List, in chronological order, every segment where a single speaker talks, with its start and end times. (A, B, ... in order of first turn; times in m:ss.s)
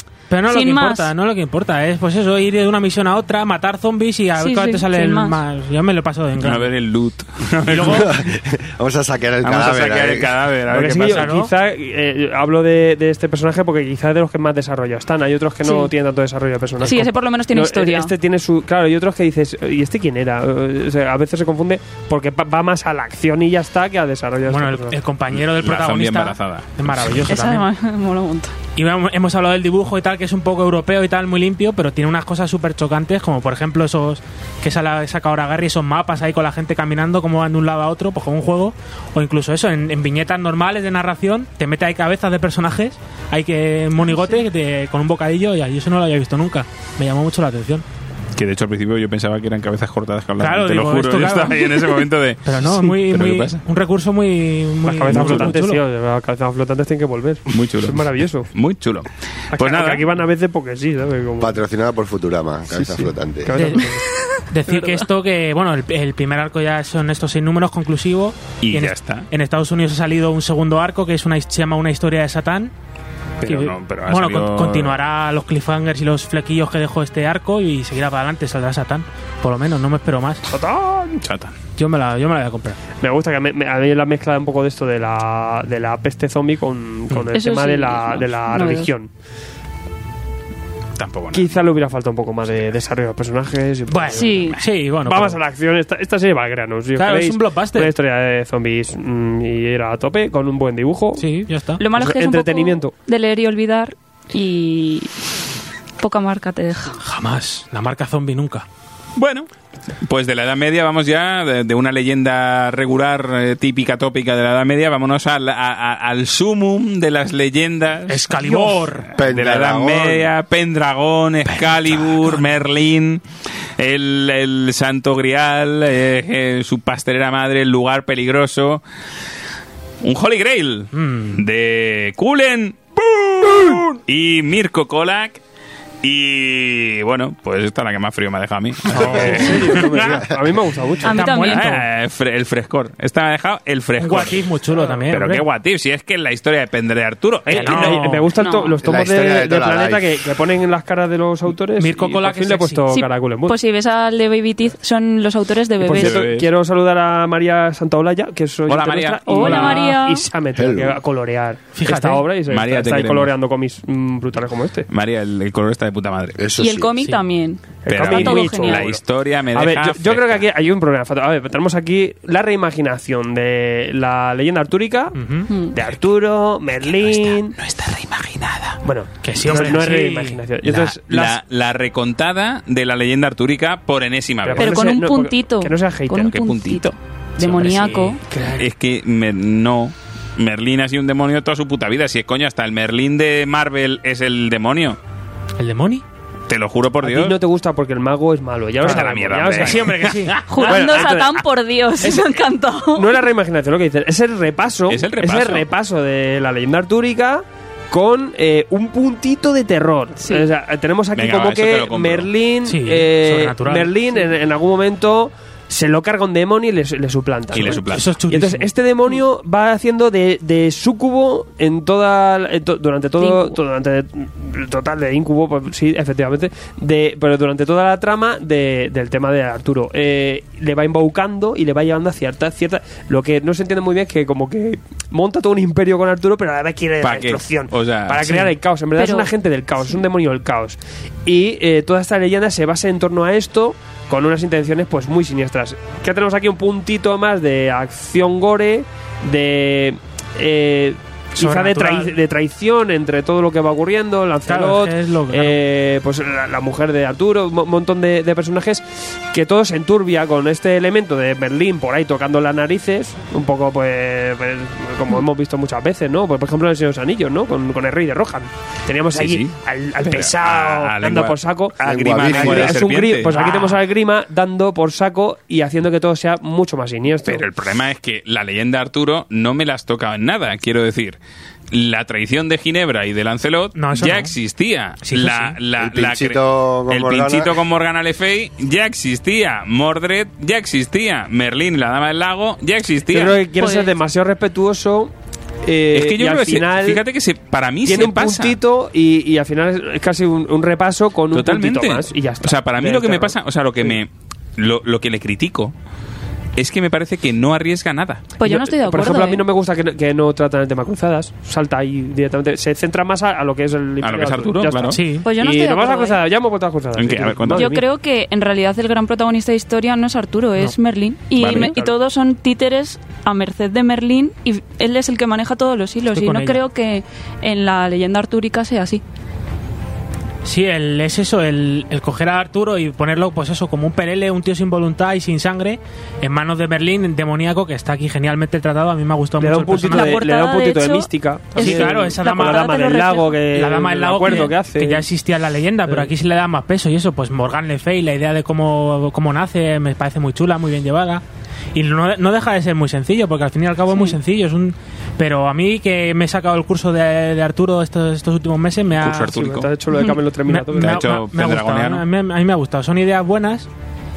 0:00.3-0:06.7 A
0:00.5-0:01.1 B
0:04.4-0:05.4 B
0:06.4-0:08.2 C
0:07.7-0:08.1 A
0:07.8-0:10.5 D
0:09.4-0:11.3 C
0:10.7-0:25.0 E
0:11.0-0:11.5 A
0:15.6-0:15.9 B
0:16.8-0:18.1 B
0:24.5-0:27.7 A
0:25.3-0:27.2 C
0:27.3-0:28.6 B
0:28.8-0:47.8 A
0:48.4-0:53.6 C
0:50.4-0:55.8 A
0:54.8-0:58.5 E
0:55.1-0:55.5 C
0:57.5-1:00.0 C
0:59.5-1:01.6 E
1:01.4-1:03.8 D
1:03.4-1:04.1 E
1:03.5-1:03.9 A
1:04.5-1:12.7 A
1:08.6-1:09.3 C
1:13.4-1:15.0 C
1:13.4-1:20.5 A
1:20.5-1:21.3 E
1:21.2-1:21.6 C
1:21.8-1:22.8 A
1:23.0-1:29.1 E
1:27.3-1:28.9 B
1:31.0-1:31.8 C
1:31.3-1:41.2 E
1:33.9-1:35.4 A
1:34.1-1:34.6 B
1:34.4-1:34.6 C
1:37.0-1:37.9 A
1:41.2-1:41.8 A
1:41.8-1:45.1 B
1:42.0-1:42.9 E
1:46.0-1:47.0 B
1:47.0-1:48.7 A
1:49.2-1:49.5 C
1:50.0-1:58.3 C
1:58.1-1:59.1 A
1:58.4-1:58.8 E
1:59.1-2:00.3 D
1:59.2-2:03.2 C
2:01.6-2:02.3 A
2:03.8-2:08.8 C
2:10.0-2:15.4 C
2:10.9-2:11.4 A
2:16.0-2:20.2 C
2:18.9-2:20.1 A
2:18.9-2:21.2 E
2:19.8-2:20.5 D
2:21.0-2:21.8 B
2:21.0-2:21.8 A
2:21.5-2:24.4 C
2:24.0-2:25.4 A
2:25.1-2:28.2 C
2:27.5-2:33.6 E
2:27.5-2:28.3 A
2:28.4-2:28.8 B
2:28.8-2:30.3 D
2:31.8-2:33.1 A
2:33.5-2:36.3 B
2:35.8-2:44.9 E
2:35.9-2:36.5 C
2:38.7-2:39.4 C
2:39.3-2:40.3 B
2:39.4-2:40.0 A
2:40.6-2:41.0 D
2:41.8-2:42.3 A
2:42.5-2:43.3 C
2:44.9-2:46.5 C
2:46.4-2:47.0 D
2:46.6-2:48.9 B
2:47.8-2:49.0 E
2:47.9-2:50.4 C
2:49.5-2:55.2 E
2:55.2-2:55.5 A
2:55.5-2:55.8 B
2:55.7-2:57.6 E
2:56.8-2:58.8 C
2:58.8-3:01.4 E
2:59.2-3:00.4 A
3:00.6-3:04.8 C
3:04.4-3:06.4 E
3:04.6-3:08.2 B
3:06.2-3:07.8 C
3:07.5-3:08.2 A
3:08.3-3:08.6 E
3:08.6-3:15.0 C
3:15.6-3:16.0 A
3:16.5-3:17.4 C
3:17.0-3:19.9 E
3:18.8-3:20.4 A
3:18.8-3:20.8 C
3:20.5-3:23.2 B
3:20.6-3:21.4 E
3:23.0-4:37.4 E
3:24.9-3:25.7 C
3:31.1-3:32.3 C
3:32.7-3:33.9 A
3:37.5-3:38.1 C
3:37.9-3:38.7 A
3:43.2-3:43.6 B
3:57.0-3:58.4 C
3:58.2-3:58.6 A
3:59.0-3:59.3 B
4:11.4-4:12.2 A
4:14.5-4:15.6 A
4:29.1-4:33.6 C
4:31.8-4:33.0 D
4:33.3-4:33.8 A
4:37.2-4:41.2 C
4:41.7-4:53.4 C
4:43.8-4:44.3 A
4:45.0-4:45.6 A
4:45.8-4:47.6 D
4:53.1-4:55.1 E
4:53.6-4:53.9 B
4:55.6-4:57.0 E
4:55.9-4:58.6 C
4:57.9-5:04.0 E
5:01.3-5:05.7 C
5:06.6-5:08.4 C
5:08.4-5:09.4 B
5:08.4-5:17.9 E
5:14.0-5:15.0 C
5:14.9-5:15.3 A
5:15.2-5:16.2 B
5:17.0-5:17.7 C
5:17.5-5:29.0 B
5:21.4-5:21.7 C
5:21.4-5:21.9 E
5:26.1-5:26.6 A
5:30.4-5:40.2 A
5:39.4-5:45.0 E
5:39.8-5:43.4 B
5:41.6-5:42.8 A
5:43.5-5:51.2 A
5:51.8-5:59.4 A
5:59.0-5:59.7 C
5:59.2-6:01.0 E
5:59.9-6:00.2 B
6:00.5-6:03.7 A
6:00.8-6:02.0 C